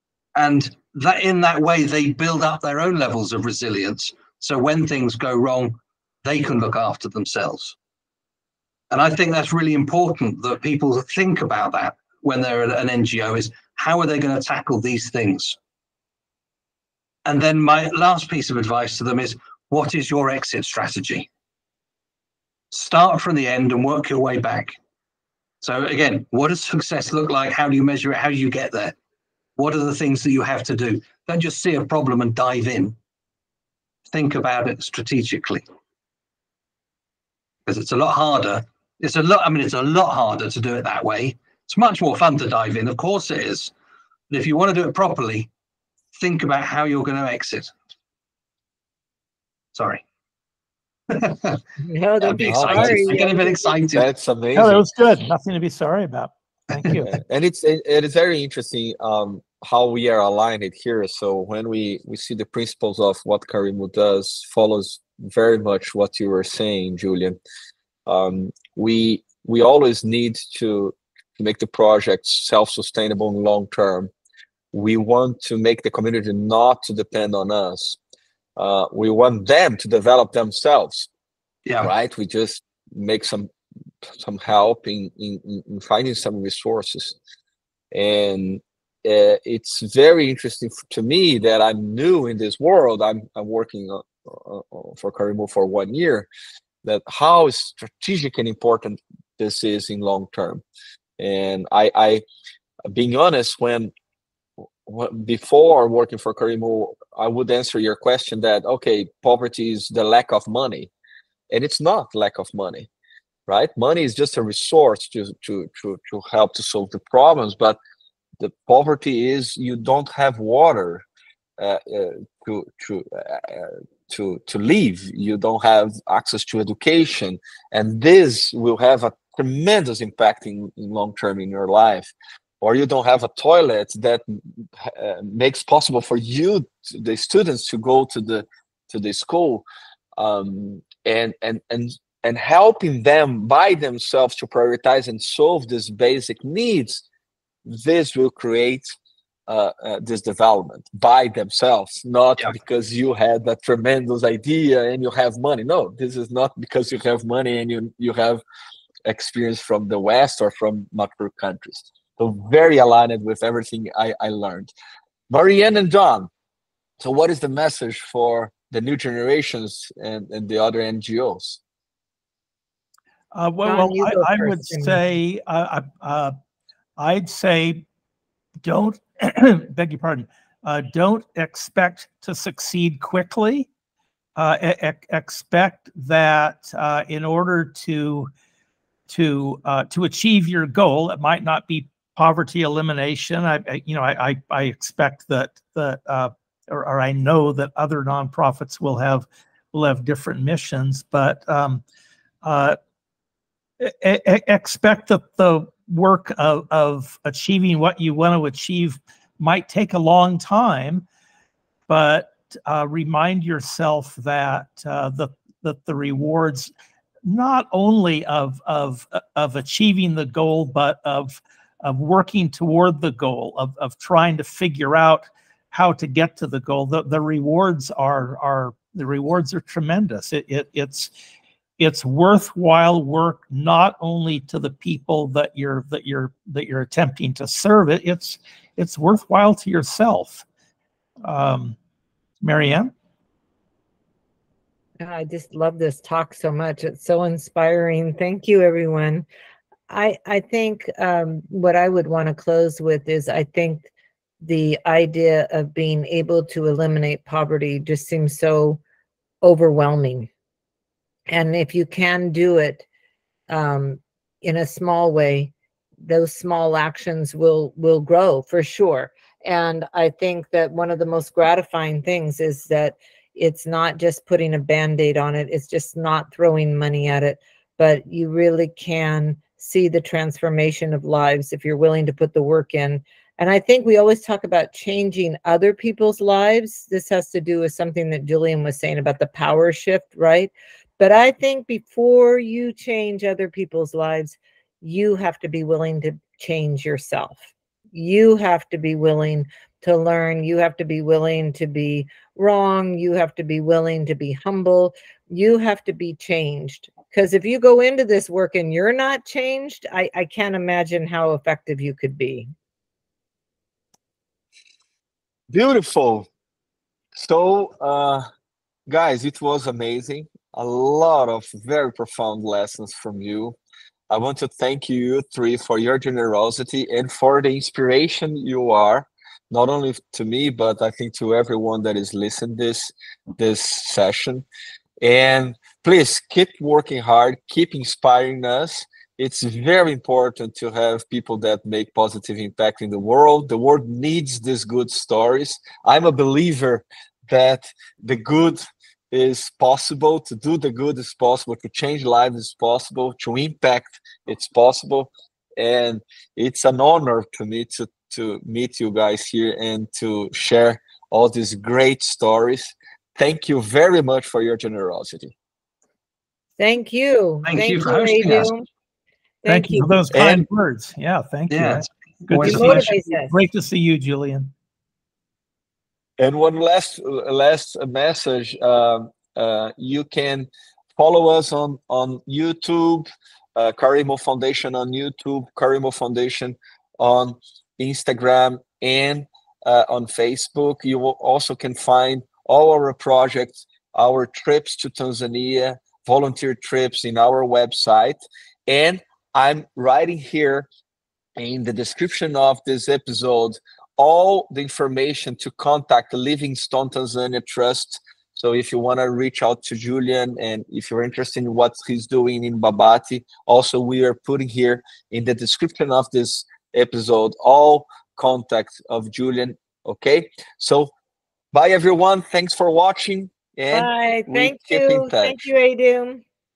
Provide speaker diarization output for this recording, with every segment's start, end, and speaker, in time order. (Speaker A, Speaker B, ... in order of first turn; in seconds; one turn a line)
Speaker A: 0.3-7.8
Speaker A: 8.9-15.6
Speaker A: 17.2-21.3
Speaker A: 22.7-24.8
Speaker A: 25.6-28.9
Speaker A: 29.6-33.0
Speaker A: 34.1-35.6
Speaker A: 37.7-43.7
Speaker A: 44.3-45.5
Speaker A: 46.1-47.7
Speaker A: 49.7-50.0
Speaker A: 51.1-51.6
Speaker B: 51.8-53.8
Speaker A: 52.2-54.1
Speaker C: 52.5-53.2
Speaker C: 53.9-54.8
Speaker D: 54.6-57.1
Speaker C: 57.0-67.4
Speaker C: 68.1-74.1
Speaker C: 74.7-78.0
Speaker C: 78.6-81.1
Speaker A: 81.7-81.9
Speaker C: 81.8-83.5
Speaker C: 84.0-87.2
Speaker C: 87.9-96.3
Speaker C: 96.8-100.6
Speaker C: 101.2-102.2
Speaker C: 102.9-103.9
Speaker C: 104.8-110.9
Speaker C: 111.5-112.9
Speaker C: 113.5-117.8
Speaker C: 118.4-121.0
Speaker C: 121.6-139.7
Speaker C: 140.2-147.0
Speaker C: 147.7-148.9
Speaker C: 149.5-158.4
Speaker C: 159.1-164.7
Speaker C: 165.3-166.3
Speaker C: 167.0-171.6
Speaker D: 173.3-176.3
Speaker B: 173.7-175.0
Speaker D: 177.0-177.8
Speaker D: 178.6-183.7
Speaker D: 184.4-188.3
Speaker D: 189.1-201.8
Speaker D: 202.4-202.8
Speaker D: 203.8-211.1
Speaker D: 211.9-216.7
Speaker D: 217.3-231.1
Speaker D: 231.8-240.4
Speaker D: 241.2-241.8
Speaker D: 242.4-242.9
Speaker B: 245.0-249.3
Speaker B: 249.9-253.9
Speaker B: 254.4-258.8
Speaker B: 259.4-260.3
Speaker B: 261.3-262.9
Speaker B: 263.5-265.5
Speaker B: 266.1-312.5
Speaker C: 315.5-316.3
Speaker C: 317.1-318.2
Speaker C: 318.9-323.6
Speaker C: 324.1-334.4
Speaker C: 335.0-365.3
Speaker B: 366.6-368.6
Speaker A: 367.4-368.5
Speaker B: 369.4-370.0
Speaker D: 369.5-374.5
Speaker C: 370.1-370.4
Speaker A: 371.5-372.9
Speaker B: 372.4-373.4
Speaker C: 376.2-400.7
Speaker C: 401.4-420.9
Speaker C: 421.5-425.4
Speaker B: 423.7-426.2